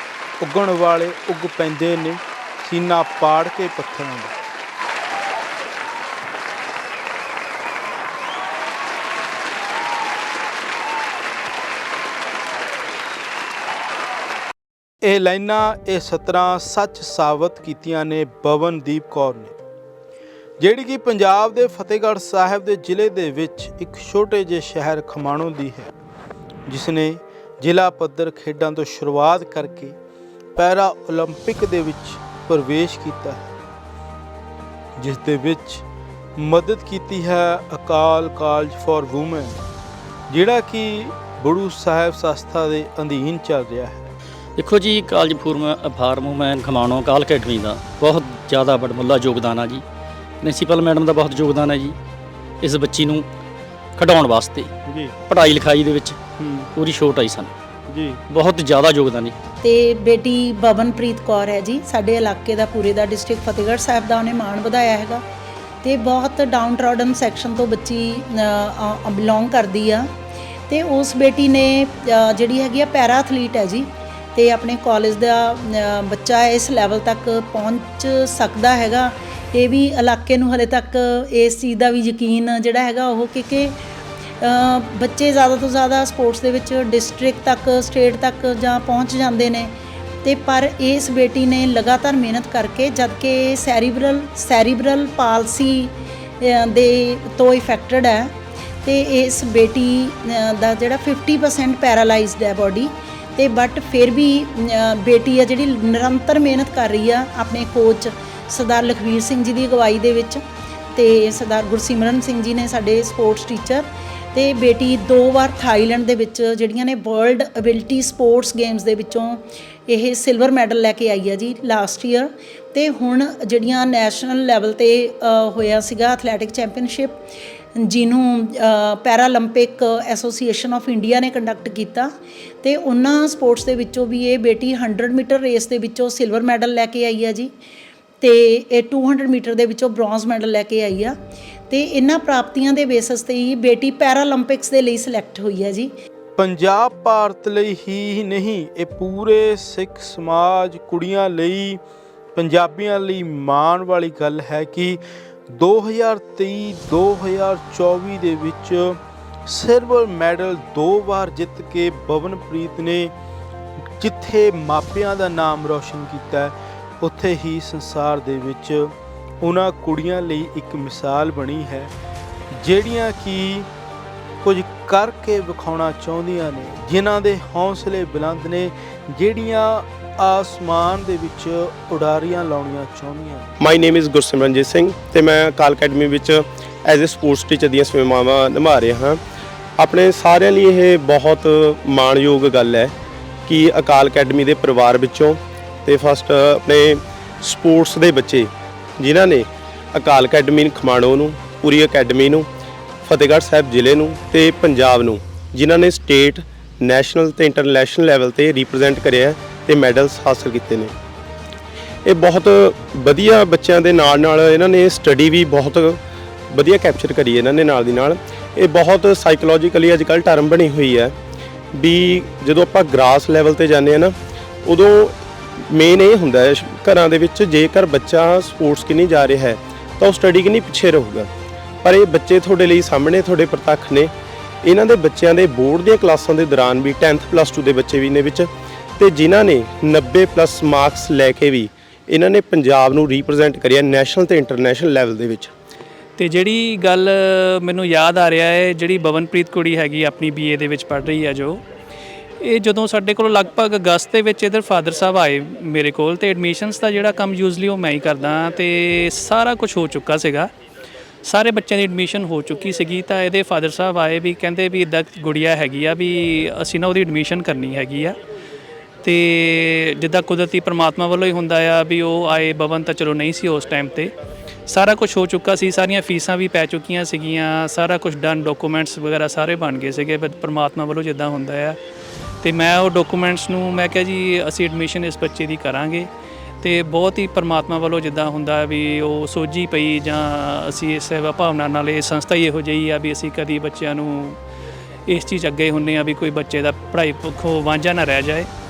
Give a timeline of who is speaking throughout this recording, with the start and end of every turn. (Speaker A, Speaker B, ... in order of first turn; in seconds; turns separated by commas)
Speaker A: 0.4-4.3, Speaker A: 15.0-19.6, Speaker A: 20.6-25.9, Speaker A: 26.7-30.0, Speaker A: 30.6-33.5, Speaker A: 35.0-35.9, Speaker A: 36.4-39.6, Speaker A: 40.3-44.1, Speaker B: 44.6-49.8, Speaker B: 50.4-52.0, Speaker B: 52.6-53.3, Speaker B: 54.0-54.7, Speaker A: 54.9-55.1, Speaker B: 55.3-56.2, Speaker A: 56.4-56.7, Speaker B: 56.8-57.5, Speaker A: 57.9-58.2, Speaker B: 58.3-59.4, Speaker C: 59.6-65.2, Speaker C: 65.8-70.1, Speaker C: 70.7-83.8, Speaker C: 84.4-89.7, Speaker C: 90.2-98.3, Speaker C: 98.8-110.4, Speaker C: 111.0-127.2, Speaker C: 127.8-132.1, Speaker C: 132.6-137.5, Speaker C: 138.2-141.2, Speaker C: 141.7-145.9, Speaker A: 146.4-151.8, Speaker A: 152.3-155.0, Speaker A: 155.5-163.1, Speaker A: 164.0-171.9, Speaker A: 172.5-173.7, Speaker A: 174.4-183.6, Speaker D: 183.6-189.2, Speaker D: 189.8-192.9, Speaker D: 193.5-202.5, Speaker D: 203.0-210.9, Speaker D: 212.1-221.2, Speaker D: 221.7-231.3, Speaker D: 231.8-234.1, Speaker D: 234.6-245.5, Speaker E: 246.2-251.6, Speaker E: 252.4-260.5, Speaker E: 261.2-268.2, Speaker E: 269.0-274.1, Speaker E: 274.7-281.8, Speaker E: 282.4-286.1, Speaker E: 286.6-294.4, Speaker E: 295.1-298.5